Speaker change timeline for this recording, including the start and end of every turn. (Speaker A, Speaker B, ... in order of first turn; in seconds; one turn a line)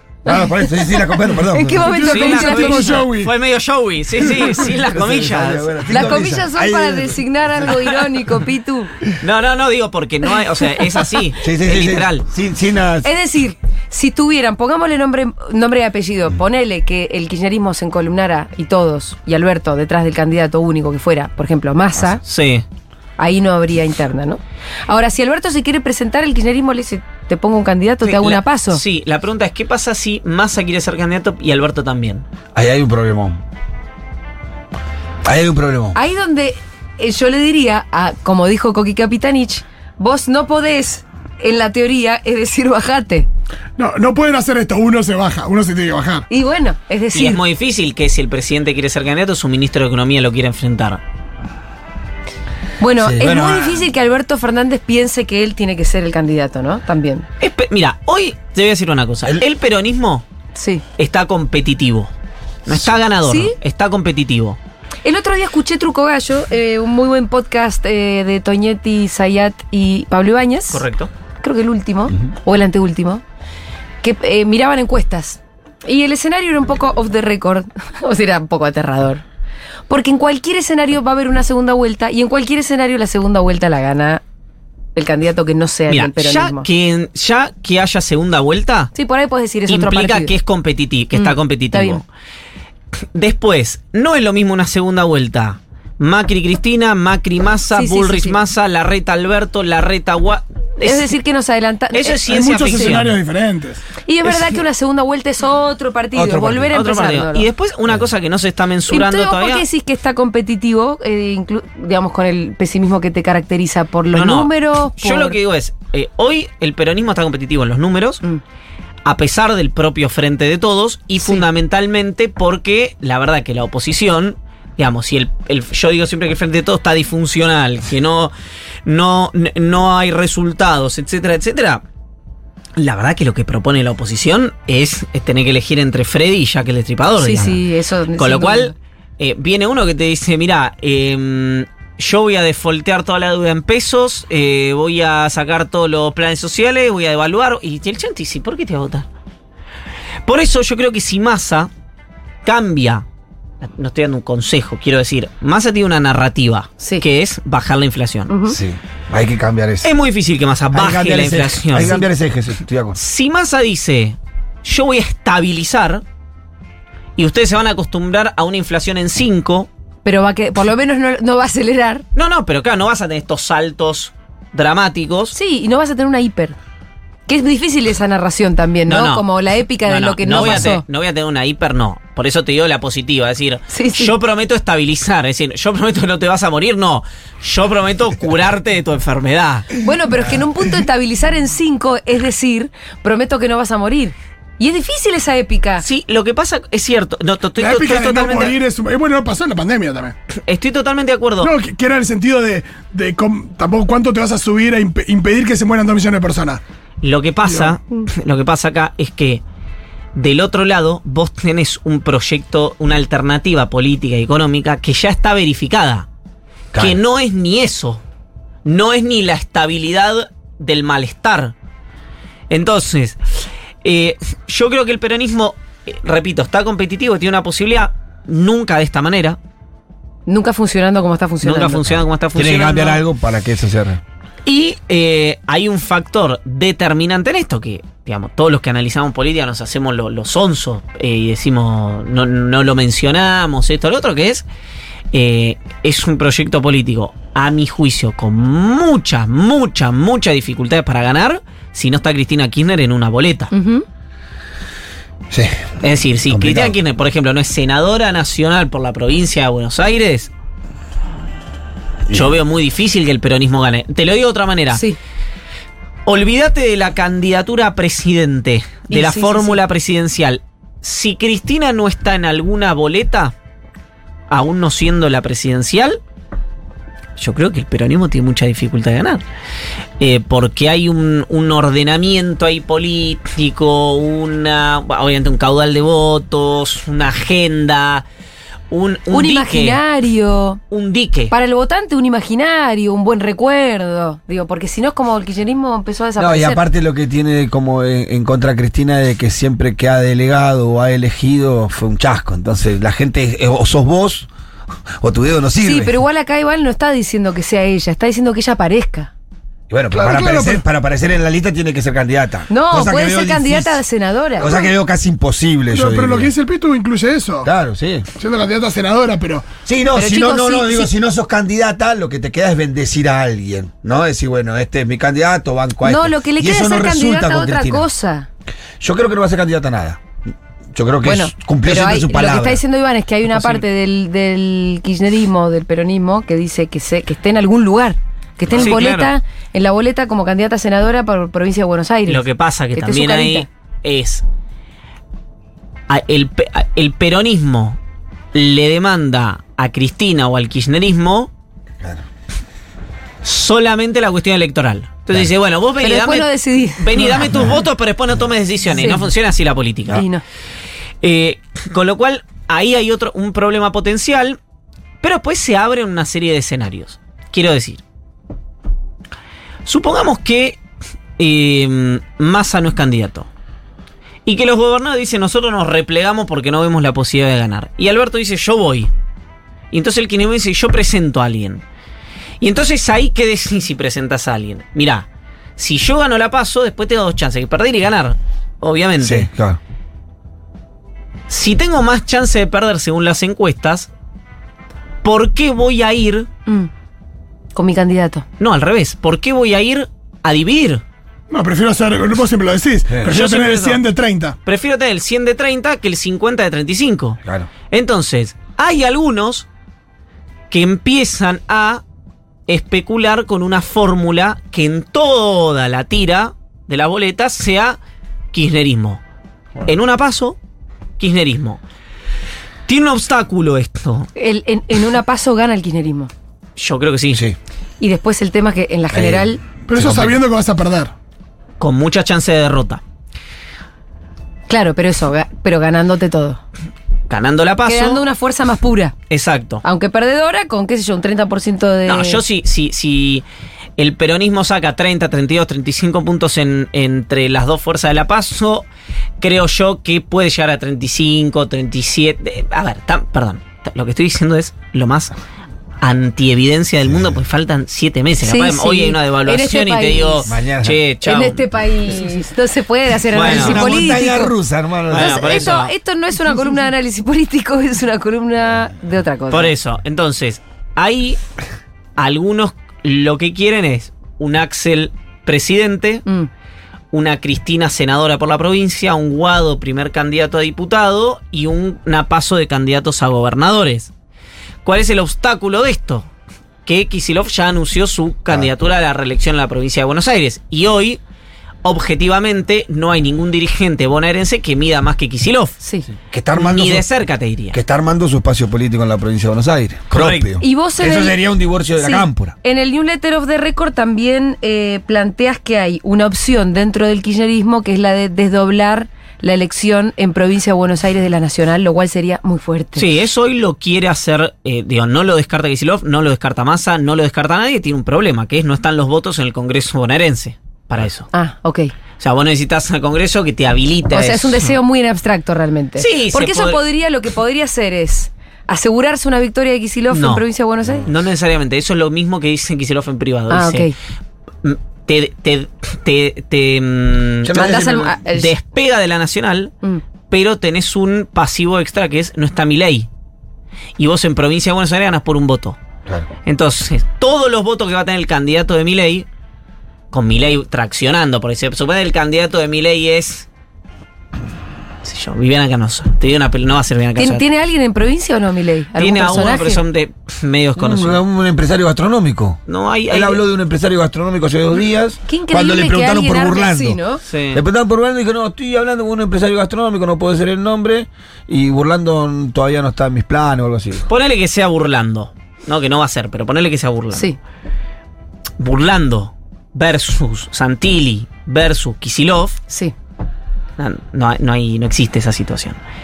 Speaker A: 0.3-2.0
Speaker B: 0.3-3.1
Speaker C: 1.9-3.3
Speaker D: 1.9-6.1
Speaker A: 4.7-7.8
Speaker B: 5.9-8.9
Speaker D: 9.2-12.2
Speaker A: 11.4-13.1
Speaker B: 13.0-22.2
Speaker D: 22.2-22.6
Speaker B: 23.2-28.8
Speaker D: 28.0-32.2
Speaker A: 32.5-33.4
Speaker A: 35.2-36.0
Speaker B: 36.0-43.3
Speaker C: 43.8-46.3
Speaker B: 46.3-47.4
Speaker D: 47.1-51.0
Speaker B: 52.8-57.3
Speaker A: 53.0-53.9
Speaker D: 57.4-60.2
Speaker B: 60.5-60.8
Speaker D: 61.0-62.1
Speaker D: 62.7-64.6
Speaker B: 63.2-63.6
Speaker B: 65.0-70.8
Speaker D: 70.7-71.1
Speaker B: 71.4-73.2
Speaker B: 74.0-79.2
Speaker B: 79.9-84.2
Speaker B: 85.0-86.7
Speaker D: 85.9-88.9
Speaker B: 89.0-90.3
Speaker D: 89.7-92.0
Speaker B: 91.1-92.0
Speaker D: 93.1-101.2
Speaker B: 97.7-98.4
Speaker B: 100.8-103.0
Speaker D: 101.9-103.2
Speaker C: 102.3-103.8
Speaker B: 104.0-107.5
Speaker A: 106.1-106.8
Speaker D: 106.7-109.6
Speaker B: 108.9-115.4
Speaker D: 114.1-118.2
Speaker D: 119.0-128.3
Speaker D: 128.8-131.8
Speaker D: 132.8-137.6
Speaker B: 137.2-138.7
Speaker D: 138.2-149.1
Speaker D: 150.3-151.7
Speaker D: 152.4-153.1
Speaker D: 153.6-158.3
Speaker B: 158.3-158.6
Speaker A: 158.5-159.9
Speaker D: 159.8-162.0
Speaker A: 160.7-163.0
Speaker D: 162.9-166.0
Speaker D: 167.2-169.7
Speaker B: 170.1-172.0
Speaker D: 172.2-175.4
Speaker B: 175.3-176.6
Speaker B: 177.3-180.8
Speaker D: 178.9-179.3
Speaker D: 179.8-189.8
Speaker B: 183.7-184.1
Speaker B: 189.8-195.8
Speaker D: 195.8-198.6
Speaker C: 197.6-200.2
Speaker D: 200.5-201.5
Speaker C: 201.4-206.6
Speaker D: 207.0-209.4
Speaker C: 207.5-207.8
Speaker D: 210.2-216.1
Speaker A: 216.7-217.0
Speaker D: 216.8-218.0
Speaker D: 218.7-221.5
Speaker D: 222.5-223.2
Speaker D: 223.8-229.4
Speaker B: 230.3-231.9
Speaker D: 231.4-233.0
Speaker A: 232.3-234.0
Speaker D: 234.4-244.5
Speaker D: 245.1-253.5
Speaker B: 253.5-253.8
Speaker A: 255.3-255.7
Speaker D: 255.8-260.3
Speaker A: 256.3-256.8
Speaker D: 262.1-264.8
Speaker D: 266.1-273.3
Speaker B: 268.9-269.6
Speaker D: 274.3-276.0
Speaker D: 277.2-279.2
Speaker D: 280.0-288.1
Speaker D: 288.7-289.8
Speaker B: 289.1-290.6
Speaker D: 290.7-291.3
Speaker B: 291.3-296.6
Speaker A: 296.2-304.3
Speaker A: 305.0-306.0
Speaker B: 305.6-309.1
Speaker A: 309.7-313.8
Speaker C: 309.9-310.6
Speaker B: 312.5-314.7
Speaker A: 314.4-316.3
Speaker C: 315.7-317.5
Speaker A: 317.4-318.1
Speaker C: 318.2-319.5
Speaker A: 319.6-327.9
Speaker B: 319.9-320.9
Speaker B: 325.8-328.3
Speaker A: 328.8-330.0
Speaker A: 330.7-332.6
Speaker B: 331.0-342.2
Speaker D: 333.3-333.6
Speaker D: 338.5-339.1
Speaker D: 342.1-344.2
Speaker B: 342.8-343.5
Speaker D: 345.9-347.8
Speaker D: 348.3-351.3
Speaker D: 353.2-360.1
Speaker B: 355.8-357.3
Speaker A: 357.2-357.5
Speaker B: 358.8-359.1
Speaker B: 359.9-360.2
Speaker D: 361.0-364.4
Speaker D: 365.0-367.8
Speaker D: 369.6-370.6
Speaker D: 371.2-373.3
Speaker D: 374.3-378.9
Speaker D: 379.7-381.6
Speaker D: 382.4-385.1
Speaker D: 385.6-389.3
Speaker A: 389.0-389.6
Speaker D: 391.3-393.9
Speaker D: 395.0-396.3
Speaker B: 397.6-398.2
Speaker D: 398.4-400.8
Speaker C: 401.3-404.4
Speaker D: 403.1-403.8
Speaker D: 404.4-407.2
Speaker A: 407.2-407.5
Speaker D: 407.7-409.5
Speaker D: 410.5-411.8
Speaker D: 412.5-417.8
Speaker D: 418.3-419.0
Speaker D: 419.6-420.4
Speaker D: 421.0-421.6
Speaker D: 422.7-424.1
Speaker B: 424.2-426.1
Speaker D: 426.6-427.2
Speaker B: 427.8-429.4
Speaker A: 428.9-430.2
Speaker C: 429.7-430.9
Speaker D: 431.6-432.8
Speaker B: 434.5-436.4
Speaker D: 437.1-438.0
Speaker B: 437.7-438.9
Speaker D: 439.1-439.6
Speaker B: 439.6-442.2
Speaker D: 441.9-443.2
Speaker D: 443.8-448.7
Speaker D: 449.2-455.1
Speaker D: 455.8-461.4
Speaker A: 456.9-457.2
Speaker B: 458.2-460.3
Speaker A: 460.3-460.8
Speaker B: 461.0-464.3
Speaker D: 463.1-463.7
Speaker A: 463.1-465.5
Speaker D: 464.9-465.7
Speaker B: 464.9-469.5
Speaker D: 469.3-471.2
Speaker D: 472.0-476.1
Speaker D: 476.9-483.9
Speaker D: 484.6-486.1
Speaker D: 486.6-491.0
Speaker D: 491.6-495.6
Speaker B: 495.6-495.9
Speaker A: 495.9-496.9
Speaker D: 496.4-497.6
Speaker A: 497.5-502.4
Speaker D: 499.9-500.3
Speaker B: 500.4-501.2
Speaker B: 501.8-512.9
Speaker D: 512.8-521.1
Speaker B: 521.1-521.7
Speaker D: 522.0-524.5
Speaker B: 523.9-530.9
Speaker D: 525.8-526.6
Speaker D: 529.9-530.2
Speaker D: 530.8-533.7
Speaker B: 533.3-533.7
Speaker D: 534.4-539.5
Speaker A: 537.2-538.0
Speaker B: 537.4-538.3
Speaker D: 540.1-542.9
Speaker D: 543.8-545.6
Speaker D: 546.3-549.1
Speaker D: 549.9-553.3
Speaker D: 554.8-557.2
Speaker B: 557.0-559.6
Speaker D: 558.8-561.0
Speaker A: 560.6-562.4
Speaker D: 562.5-563.2
Speaker A: 562.9-566.8
Speaker B: 565.1-567.0
Speaker D: 567.1-567.4
Speaker A: 567.3-573.9
Speaker D: 573.9-577.1
Speaker D: 578.4-582.4
Speaker B: 582.5-582.7
Speaker D: 583.6-585.6